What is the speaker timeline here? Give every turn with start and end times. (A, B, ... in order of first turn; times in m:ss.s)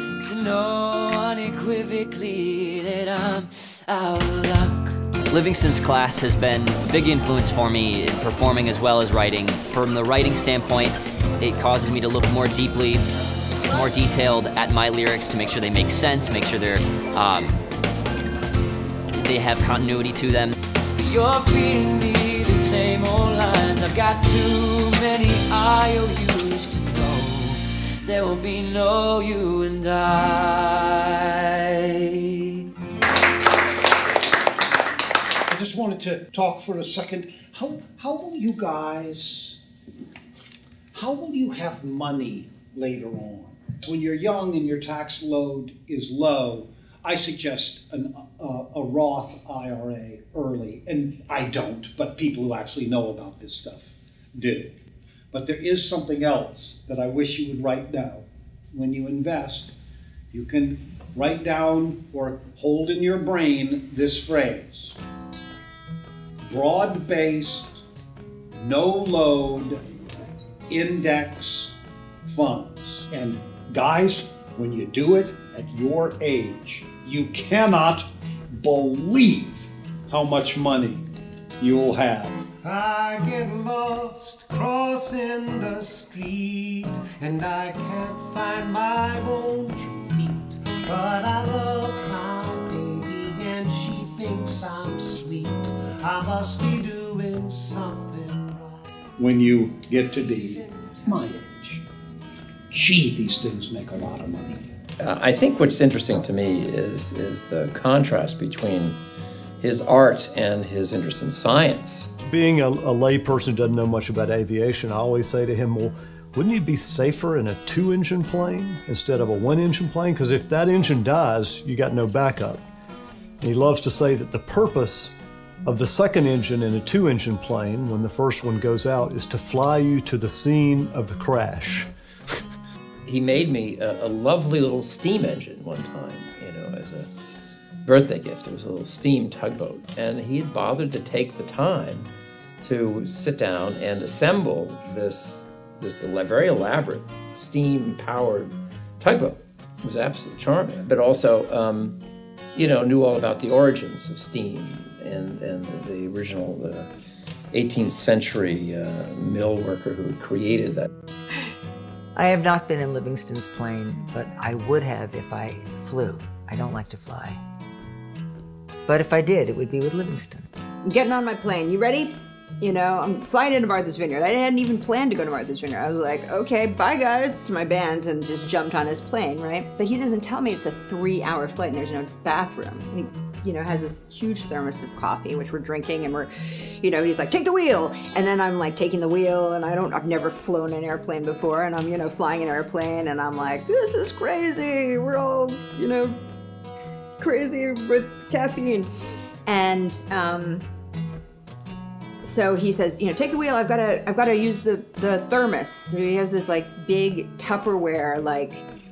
0:00.2-0:04.9 A
0:05.3-0:13.1 B
0:13.7-0:17.6 B
0:19.2-0:20.6 B
0:21.0-0:32.4 A
0:35.5-0:39.6 C
0:40.9-0:54.7 C
0:55.3-0:59.7 C
1:00.3-1:05.0 C
1:06.5-1:07.8 C
1:08.6-1:09.8 C
1:10.7-1:21.1 C
1:21.6-1:22.4 C
1:22.6-1:39.0 D
1:39.2-1:41.8 C
1:40.2-1:41.4 D
1:42.7-1:44.7 C
1:45.0-1:49.0 E
1:49.6-1:52.1 E
1:52.2-2:02.6 F
2:03.4-2:05.1 F
2:05.7-2:11.9 F
2:13.1-2:17.1 E
2:17.8-2:22.1 E
2:22.6-2:32.0 E
2:32.6-2:36.9 E
2:37.5-2:40.9 E
2:42.2-2:47.4 G
2:48.9-2:50.5 G
2:50.8-3:16.2 H
3:17.2-3:18.9 H
3:19.4-3:20.7 H
3:22.2-3:28.6 H